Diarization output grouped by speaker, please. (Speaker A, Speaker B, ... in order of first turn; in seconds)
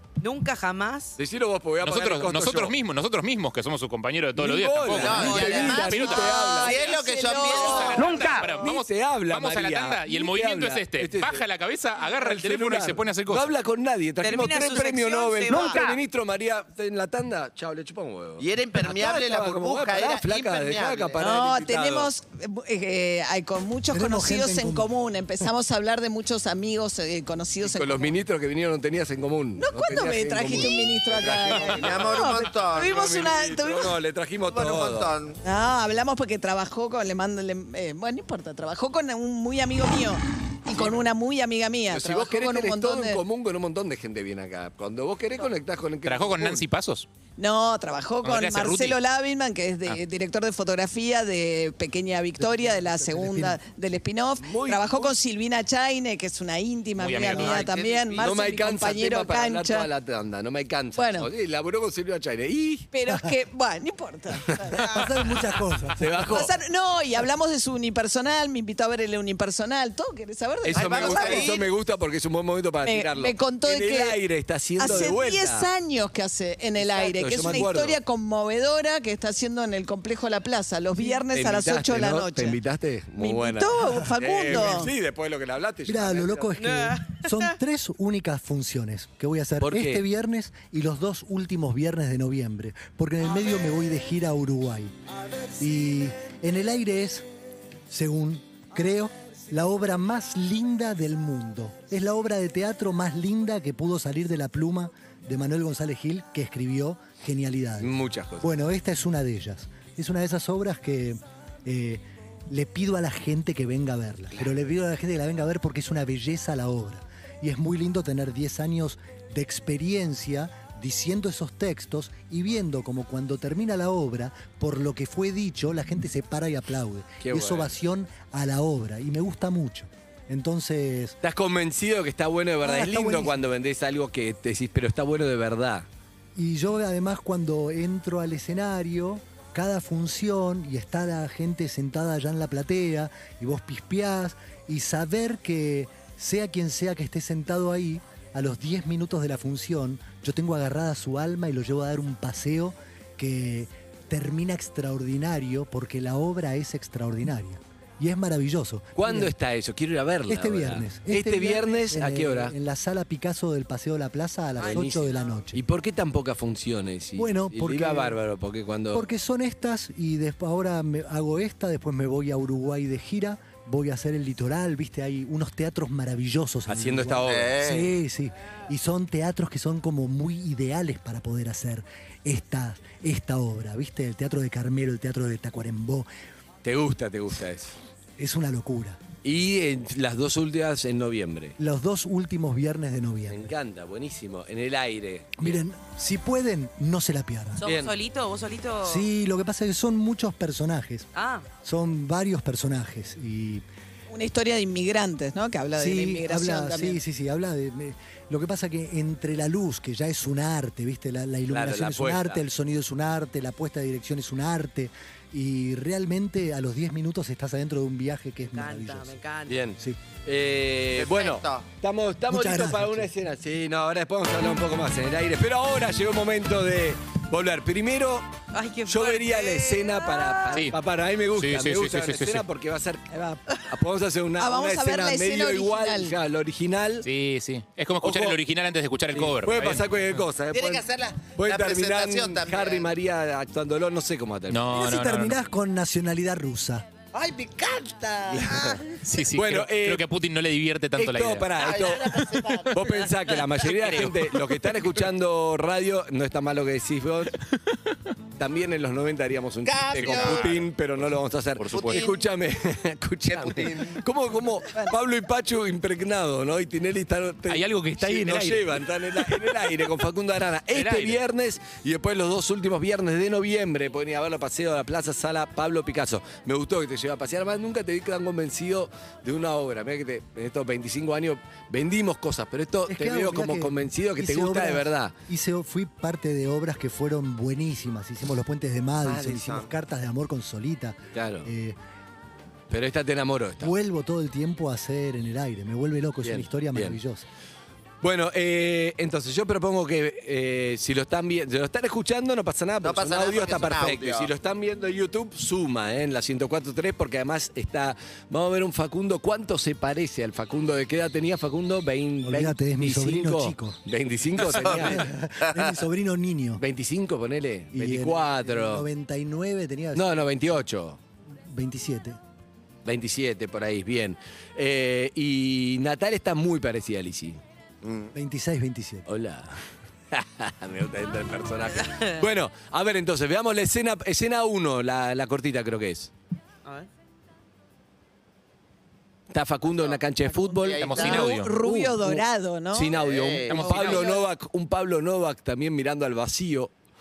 Speaker A: 0.2-1.2, 5.1-5.8, 14.2-16.0, 86.5-87.5, 164.6-164.8, 197.6-199.1, 201.1-201.4, 218.4-219.6, 228.5-230.6, 331.8-332.1
Speaker B: 1.2-2.7, 4.3-6.8, 8.1-11.4, 12.0-22.1, 27.6-32.2, 32.7-35.1, 41.9-46.6, 52.4-53.1, 54.4-55.1, 57.2-62.9, 64.5-64.8, 66.0-66.5, 70.6-75.7, 76.8-78.0, 81.0-86.5, 89.6-90.0, 107.8-108.5, 127.2-127.7, 131.2-135.9, 158.9-162.5, 164.6-169.1, 176.7-177.6, 186.6-187.7, 189.2-191.6, 193.3-195.6, 197.6-197.9, 211.5-212.4, 219.5-228.3, 228.8-237.1, 238.0-238.4, 239.1-244.7, 248.3-250.0, 251.0-257.4, 258.4-285.1, 291.1-291.5, 292.7-293.7, 296.2-297.0, 298.0-315.1, 316.6-318.9, 319.9-321.0, 322.8-327.4, 329.1-336.1, 339.3-346.7
Speaker C: 1.8-6.3, 7.4-13.5, 46.0-47.1, 48.2-49.0, 57.0-58.0, 231.3-232.4, 237.0-239.9, 244.5-245.4, 249.0-251.8, 260.0-260.5, 261.6-262.1, 267.5-268.8, 270.7-271.2, 340.8-341.5, 343.5-344.1
Speaker D: 4.9-8.4, 18.4-21.2, 31.7-33.3, 34.5-35.4, 70.7-71.6, 177.2-177.9, 220.9-221.7, 240.5-242.9, 247.1-248.8, 251.6-252.9, 259.6-260.6, 261.7-262.2, 263.3-263.9, 289.0-289.7, 302.8-304.3, 314.5-315.8, 327.8-328.1, 339.7-340.0, 340.6-341.3, 342.9-343.7
Speaker E: 6.1-8.4, 21.2-28.1, 29.6-34.0, 35.4-43.2, 47.4-59.9, 60.9-61.3, 62.9-65.1, 66.2-71.5, 72.8-74.2, 74.8-82.6, 83.2-84.9, 204.1-207.0, 233.1-233.4, 234.4-236.2, 340.3-343.0, 343.6-344.2
Speaker F: 23.9-24.9, 53.0-53.6, 64.7-66.1, 85.8-94.9, 95.6-97.2, 97.9-131.2, 132.6-133.4, 136.3-159.3, 160.3-165.6, 167.2-168.2, 168.9-186.1, 188.2-189.0, 191.6-193.5, 195.4-197.7, 198.8-201.1, 201.6-203.6, 205.8-219.2, 222.3-223.1, 244.7-246.8, 282.9-291.8, 293.6-297.2, 312.2-313.8, 314.6-316.6, 317.7-320.1, 321.5-322.2, 328.1-329.1